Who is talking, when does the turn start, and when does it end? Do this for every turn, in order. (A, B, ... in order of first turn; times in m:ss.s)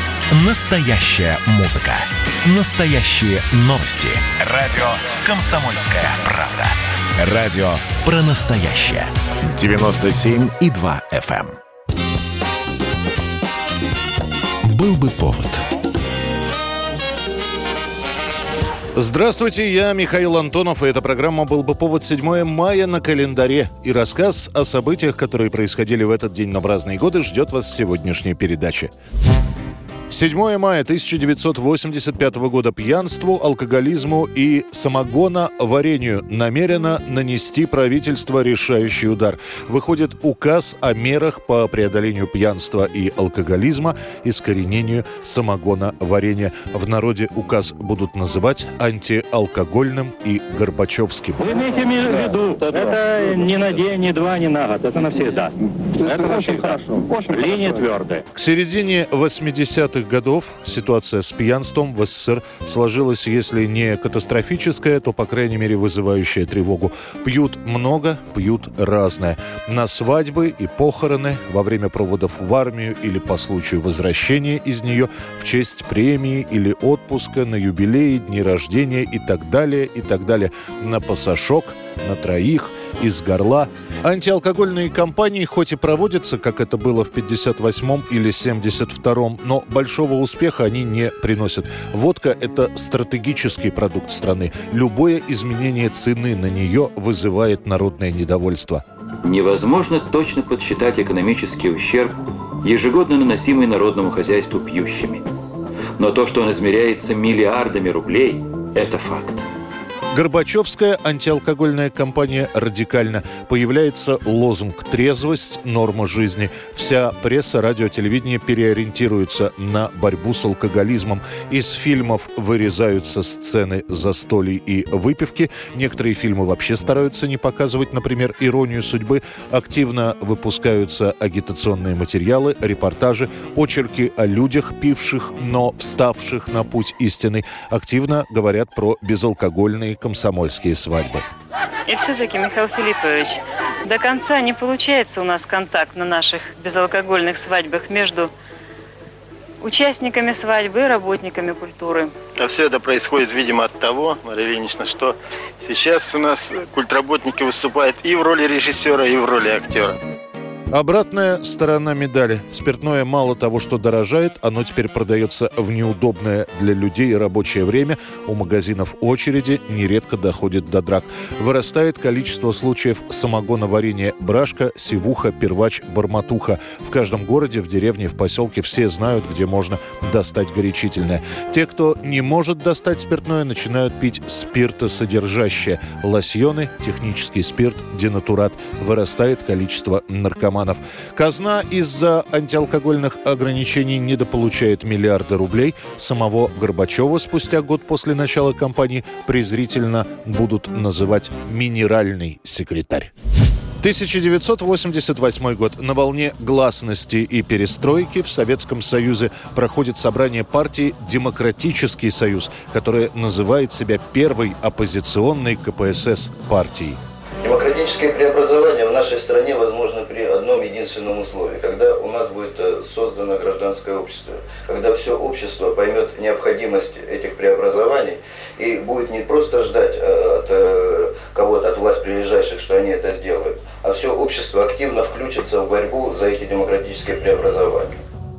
0:00.3-0:11.6 A
0:14.6-0:15.6 A
0:19.0-0:28.9 B
0:30.1-0:51.5 B
0:51.4-0:58.2 C
0:58.3-1:38.8 B
1:39.2-1:45.3 D
1:46.0-1:49.4 D
1:50.1-2:21.3 B
2:21.9-2:28.3 E
2:29.6-2:32.1 E
2:32.4-2:40.0 F
2:40.7-3:23.1 B
3:23.8-3:37.0 B
3:37.4-3:58.0 G